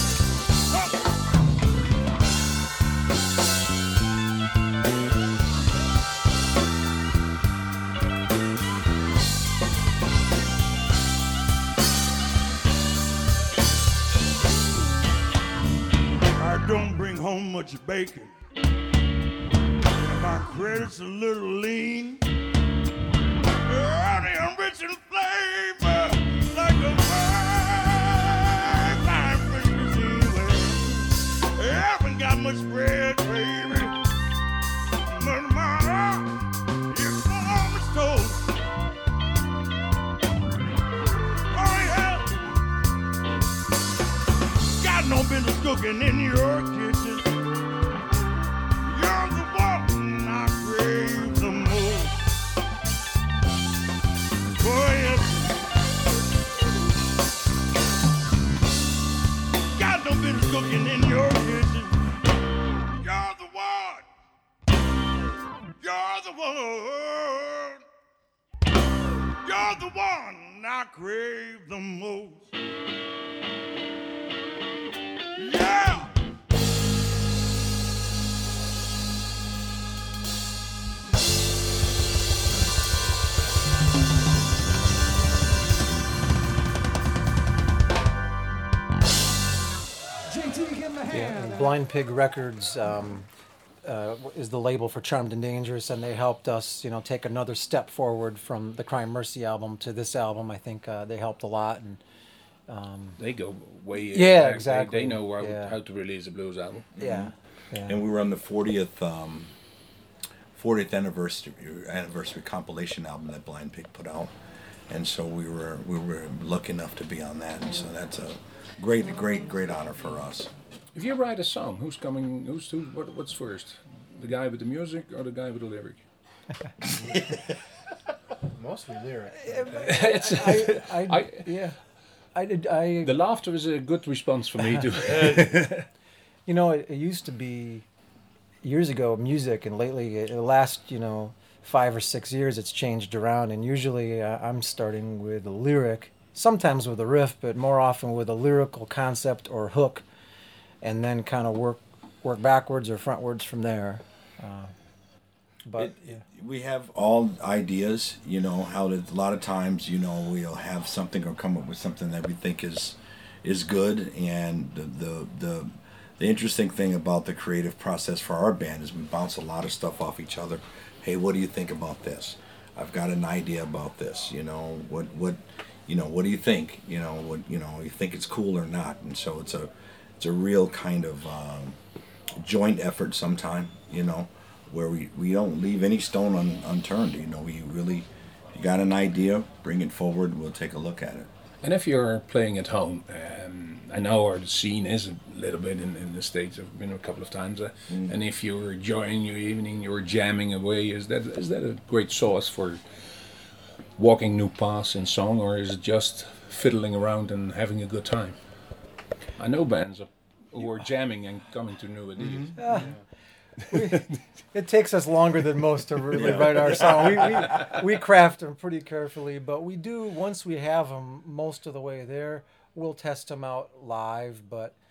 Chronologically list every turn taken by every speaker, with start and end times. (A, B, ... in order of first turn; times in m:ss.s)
0:00.7-0:01.1 A
0:16.4-0:18.3 A
0:19.9-0:22.2 A
0:23.6-0:34.0 A
0:35.0-0:38.5 A
0:41.5-0:42.5 A
0:44.8-0:47.3 A
0:48.8-0:52.2 A
0:54.5-0:55.6 A
0:59.7-1:02.2 A
1:02.9-1:04.1 A
1:05.8-1:07.8 A
1:09.4-1:12.5 A
1:15.4-1:16.1 A
1:30.9-1:33.3 B
1:33.8-1:42.0 B
1:42.7-1:43.2 B
1:43.2-1:46.9 C
1:44.1-1:45.8 B
1:47.0-1:47.3 D
1:47.0-1:48.0 B
1:47.9-1:49.5 D
1:50.6-1:54.3 D
1:54.9-2:00.5 D
2:00.9-2:06.0 C
2:07.0-2:07.3 E
2:08.5-2:10.1 E
2:09.4-2:11.8 B
2:09.8-2:11.5 C
2:12.4-2:13.1 B
2:13.0-2:15.9 C
2:14.8-2:15.4 B
2:16.5-2:17.8 B
2:18.6-2:30.0 B
2:30.8-2:34.7 B
2:35.6-2:36.2 B
2:35.8-3:01.8 D
3:02.4-3:11.3 D
3:11.6-3:22.8 C
3:17.9-3:18.2 D
3:24.0-3:28.4 C
3:29.4-3:32.9 C
3:32.2-3:32.5 D
3:32.6-3:33.0 B
3:32.7-3:33.0 E
3:33.7-3:44.8 B
3:36.1-3:37.8 D